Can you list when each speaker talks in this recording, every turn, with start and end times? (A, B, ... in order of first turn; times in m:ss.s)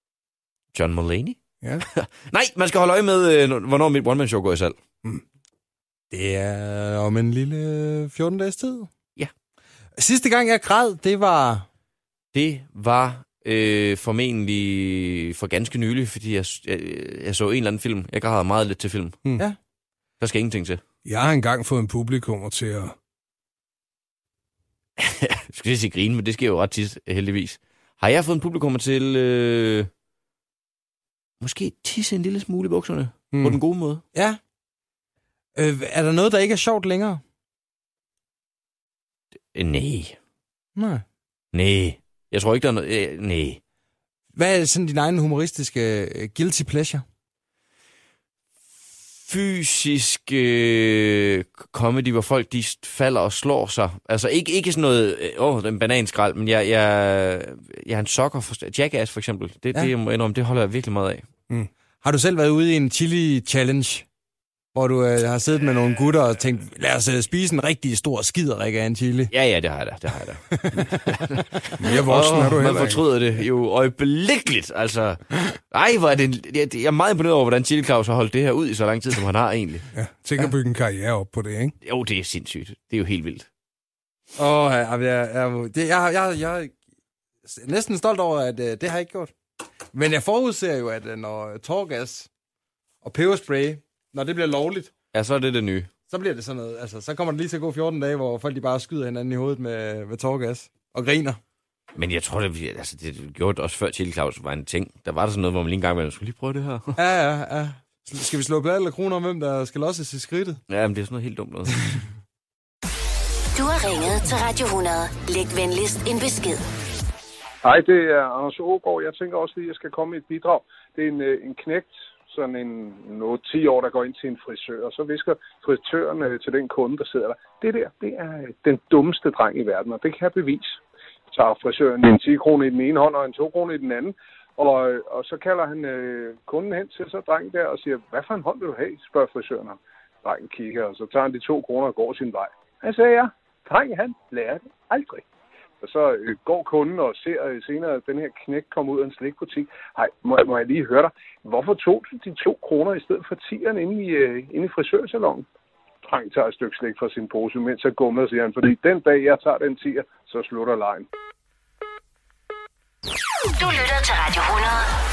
0:00.7-0:01.4 A
0:02.0-0:04.8 A
0:06.1-0:08.9 B
0:10.0-0:11.6 B
0:12.3-0:19.2 A
0:20.2-0:20.8 A
0:21.0-0:22.9 C
0:25.0-0:29.9 A
0:31.4-0:34.0 A
0:33.3-0:33.6 C
0:35.6-0:37.2 B
0:39.5-0:40.2 A
0:40.8-0:41.0 B
0:41.5-0:43.6 A
0:44.3-0:47.0 B
0:49.2-1:01.2 A
1:02.0-1:04.0 B
1:04.7-1:09.3 B
1:09.3-1:19.8 A
1:11.8-1:13.0 C
1:19.9-1:21.7 C
1:21.8-1:23.5 A
1:24.4-1:26.7 B
1:27.4-1:29.3 B
1:29.9-1:32.3 B
1:33.0-1:34.9 B
1:35.1-1:35.9 A
1:36.1-1:41.4 B
1:41.9-1:47.0 A
1:47.0-1:50.6 B
1:50.7-1:52.0 A
1:53.5-1:56.6 D
1:57.6-2:10.7 E
2:11.3-2:25.2 E
2:25.8-2:35.4 E
2:36.0-2:41.1 E
2:43.5-2:44.9 D